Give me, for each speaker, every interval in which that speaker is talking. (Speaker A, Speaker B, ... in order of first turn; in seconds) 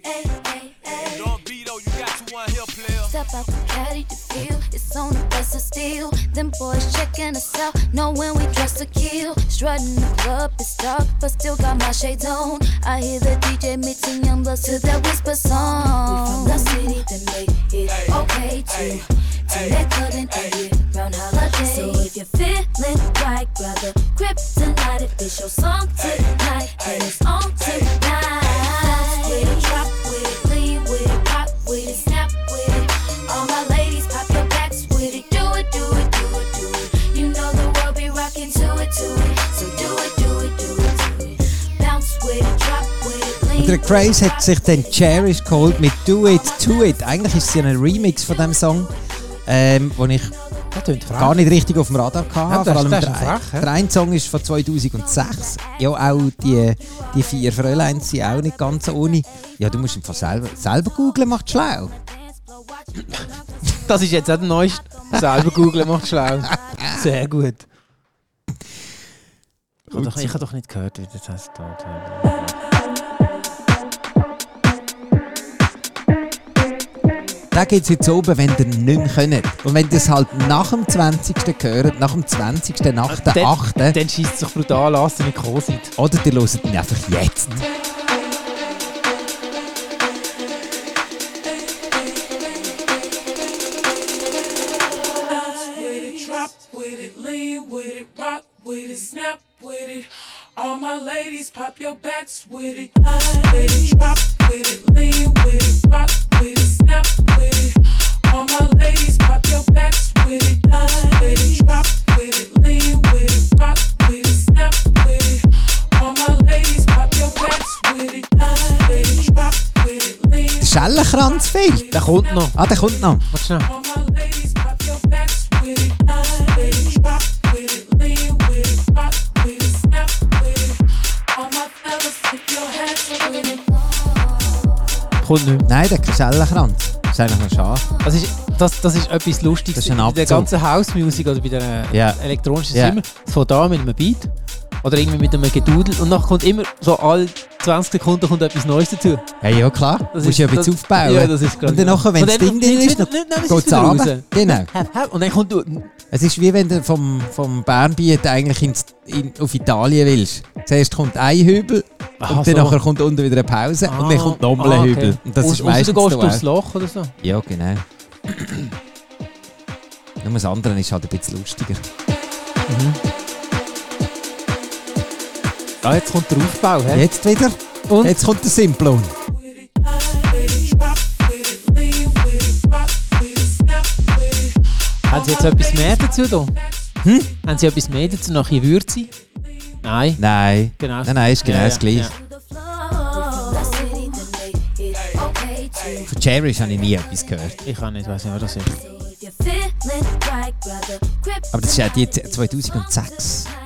Speaker A: 0.2-1.2, 3.0-45.1, 46.5-46.8, 62.9-63.2, 192.4-196.1, 198.7-202.7, 203.3-203.5
Speaker B: 0.9-3.1
Speaker C: 29.0-29.9, 95.2-122.5, 123.6-133.6, 179.3-187.1
Speaker D: 43.5-48.9, 49.5-50.3, 51.1-61.9, 65.2-65.5, 69.9-70.4, 77.5-84.0, 86.0-87.6, 120.6-121.9, 122.5-123.2, 135.6-137.9, 139.7-140.5, 141.9-143.0, 149.4-154.7, 156.1-166.4, 167.2-168.4, 170.2-171.8, 176.9-179.1, 187.0-187.3, 190.2-192.1, 196.1-197.6, 201.5-203.5
Speaker E: 50.7-51.4, 52.5-53.7, 63.7-67.7, 69.9-72.6, 83.0-85.9, 121.9-122.6, 123.3-123.7, 135.2-135.7, 138.0-149.2, 150.1-155.9, 162.2-162.8, 163.8-167.2, 172.7-173.0, 175.8-177.1, 177.9-178.2, 185.1-186.6, 187.4-189.1, 189.8-190.2, 190.8-192.1, 197.6-198.8